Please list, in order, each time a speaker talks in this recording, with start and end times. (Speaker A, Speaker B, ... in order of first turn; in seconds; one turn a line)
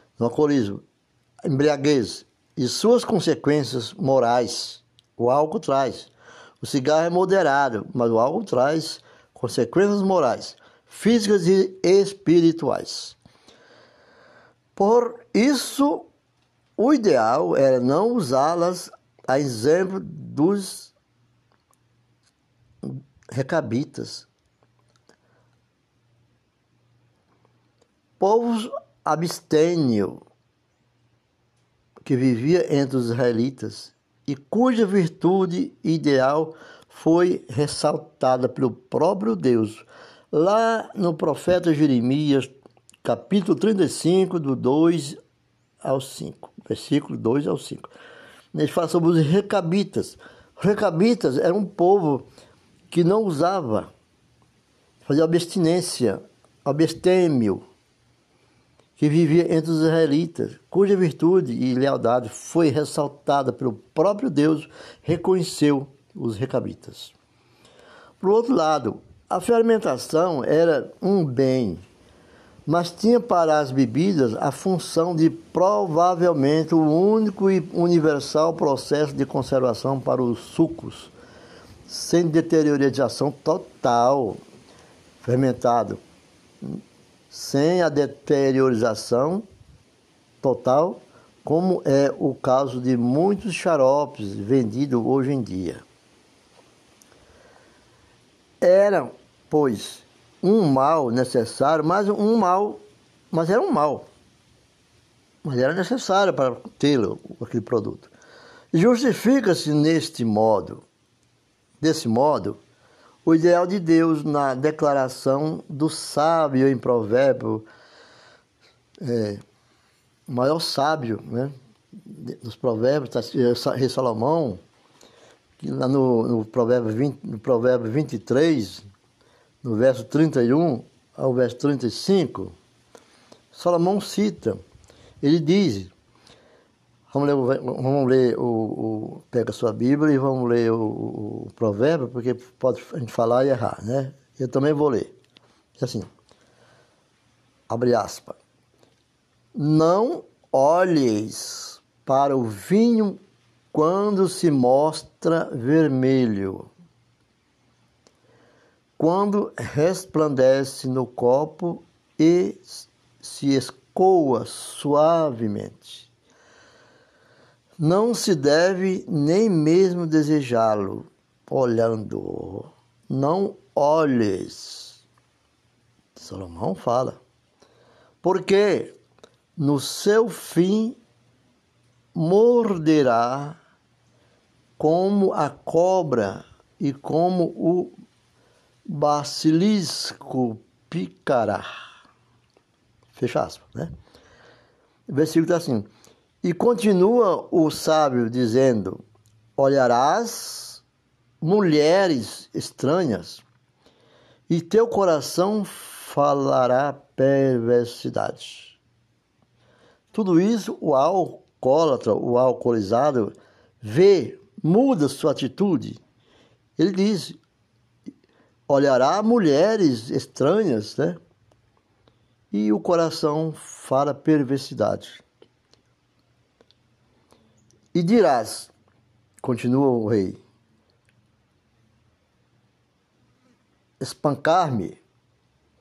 Speaker A: 0.2-0.8
Speaker A: 1.4-13.2
Speaker A: 14.8-16.1
Speaker A: 16.8-20.9
Speaker A: 22.8-24.3
Speaker A: 28.2-30.2
Speaker A: 32.0-42.5
Speaker A: 43.0-45.2
Speaker A: 45.8-47.9
Speaker A: 48.5-52.3
Speaker A: 52.9-53.9
Speaker A: 55.0-57.6
Speaker A: 59.0-67.1
Speaker A: 68.2-71.8
Speaker A: 72.7-81.1
Speaker A: 81.9-84.4
Speaker A: 85.2-86.0
Speaker A: 87.3-89.5
Speaker A: 90.4-95.8
Speaker A: 98.6-104.1
Speaker A: 105.4-108.1
Speaker A: 108.7-110.8
Speaker A: 111.8-112.6
Speaker A: 113.2-117.7
Speaker A: 119.0-119.4
Speaker A: 120.3-121.5
Speaker A: 122.1-124.6
Speaker A: 125.6-128.9
Speaker A: 129.6-132.6
Speaker A: 133.5-134.6
Speaker A: 135.2-135.9
Speaker A: 137.1-145.1
Speaker A: 145.8-146.1
Speaker A: 147.7-148.4
Speaker A: 149.6-153.2
Speaker A: 153.7-156.7
Speaker A: 159.0-166.1
Speaker A: 167.8-175.0
Speaker A: 176.2-177.2
Speaker A: 178.2-179.0
Speaker A: 179.6-181.0
Speaker A: 182.2-183.6
Speaker A: 184.8-187.9
Speaker A: 188.8-191.7
Speaker A: 193.1-193.9
Speaker A: 195.1-195.9
Speaker A: 196.4-199.0
Speaker A: 199.6-200.8
Speaker A: 201.4-203.4
Speaker A: 204.5-208.8
Speaker A: 210.1-216.0
Speaker A: 216.8-217.4
Speaker A: 218.7-221.2
Speaker A: 222.5-225.2
Speaker A: 227.9-228.7
Speaker A: 229.4-230.4
Speaker A: 234.0-235.0